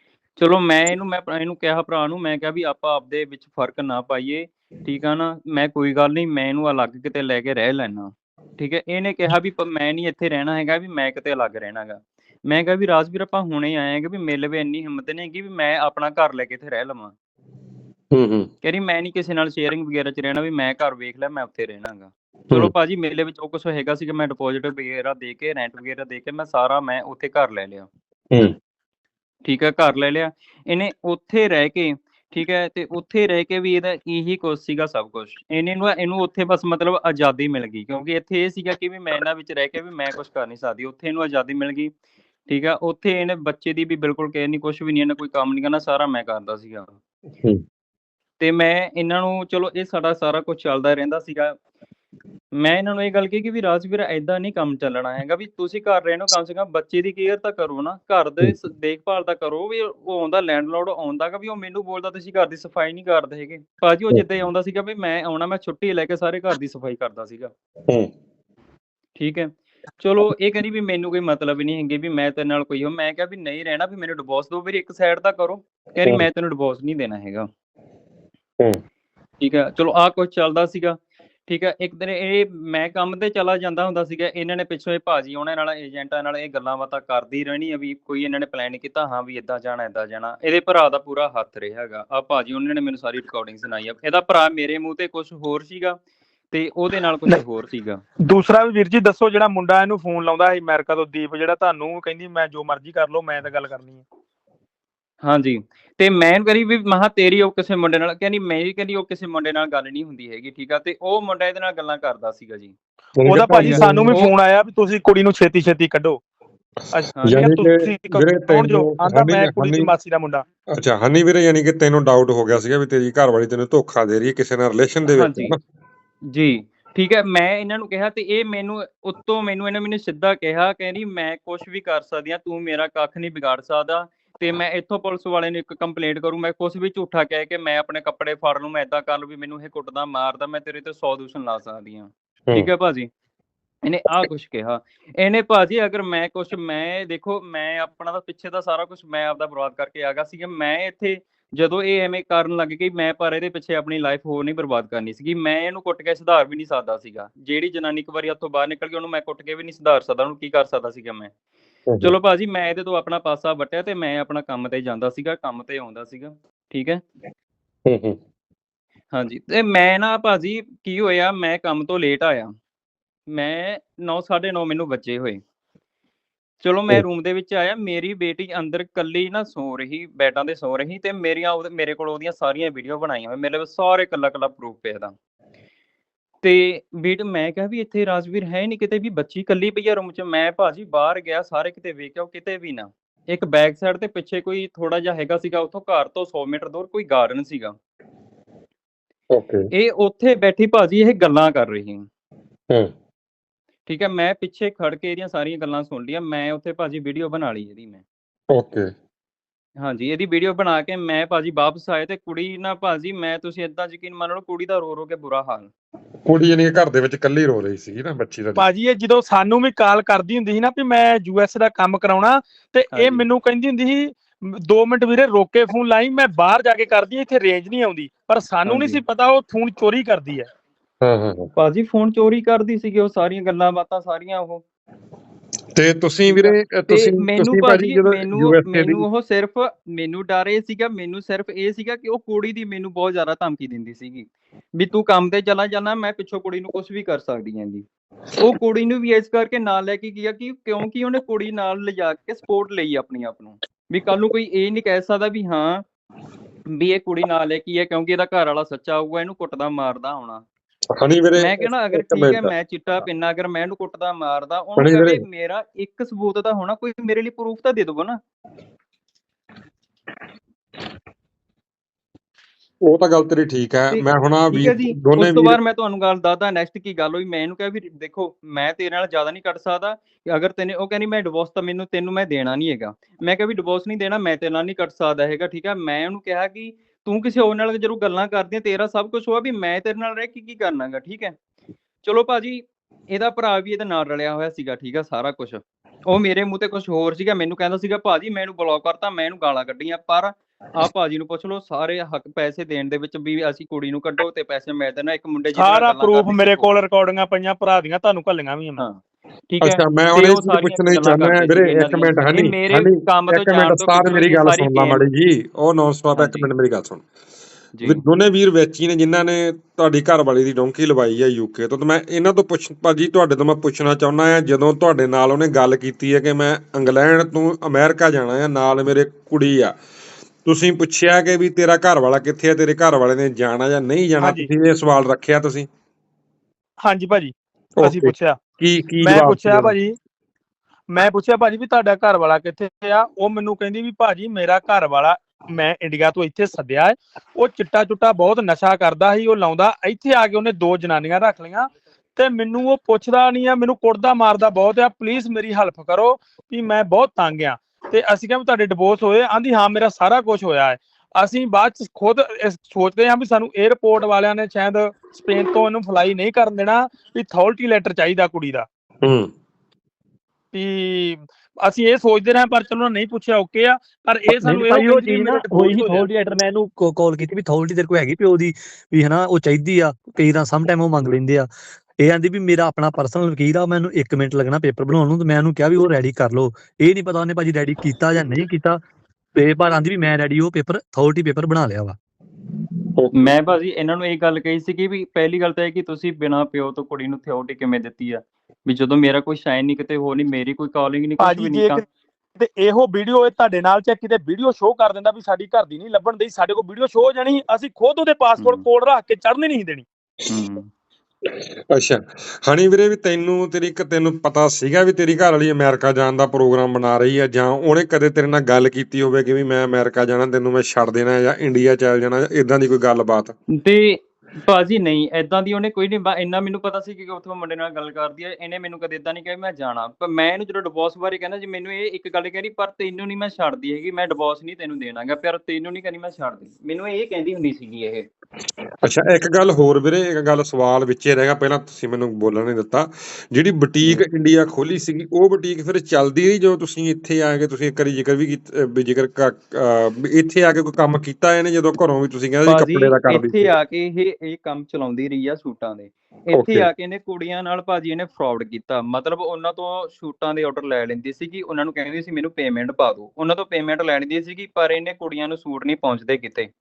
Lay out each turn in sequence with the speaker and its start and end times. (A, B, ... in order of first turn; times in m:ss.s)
0:00.4-0:17.1 A
0:18.1-0:18.5 B
0:18.6-0:27.9 A
0:29.4-0:41.9 A
0:42.5-0:47.0 A
0:48.4-0:51.6 A
0:52.6-1:07.5 A
1:09.2-1:17.5 A
1:19.4-1:36.0 A
1:36.5-1:38.0 A
1:38.2-1:44.0 C
1:45.2-1:52.8 A
1:53.2-1:54.3 B
1:53.3-1:56.2 C
1:53.6-1:54.3 A
1:56.9-2:00.4 C
1:57.2-1:57.5 A
1:57.3-1:59.9 B
2:00.7-2:05.6 B
2:05.2-2:05.6 A
2:06.3-2:23.1 A
2:23.8-2:41.3 A
2:42.0-2:47.0 A
2:47.9-2:48.2 B
2:49.1-2:52.5 A
2:53.3-2:55.4 A
2:56.6-3:05.1 A
3:06.4-3:17.8 A
3:19.3-3:19.7 B
3:19.7-3:22.1 A
3:23.9-3:28.0 A
3:28.5-3:28.9 B
3:29.8-3:35.7 A
3:36.3-3:38.7 B
3:38.6-3:50.5 C
3:42.9-3:43.2 A
3:48.7-3:49.0 A
3:51.0-3:51.5 B
3:51.6-3:54.6 A
3:55.8-3:59.0 B
3:56.3-4:07.8 A
4:08.4-4:15.8 A
4:16.7-4:20.4 A
4:21.0-4:22.5 B
4:21.4-4:28.2 A
4:24.8-4:25.2 B
4:32.8-4:35.6 B
4:33.9-4:51.4 A
4:52.0-5:06.8 A
5:05.6-5:08.8 C
5:08.8-5:15.1 A
5:09.6-5:17.0 B
5:16.2-5:16.5 A
5:17.8-5:18.0 A
5:17.8-5:29.7 B
5:30.4-5:35.7 B
5:34.2-5:34.5 C
5:36.8-5:38.4 C
5:37.8-5:39.8 B
5:39.0-5:40.0 C
5:40.9-6:08.7 C
6:09.0-6:09.3 B
6:10.5-6:16.0 C
6:14.3-6:21.5 D
6:22.0-6:28.8 D
6:29.4-6:32.0 D
6:33.0-6:33.4 B
6:33.1-6:41.8 A
6:41.2-6:41.8 C
6:42.4-6:49.9 C
6:48.4-6:48.6 A
6:50.3-6:50.7 A
6:51.3-7:03.4 B
7:03.5-7:18.1 A
7:18.8-7:33.5 B
7:32.5-7:46.5 A
7:36.3-7:36.7 B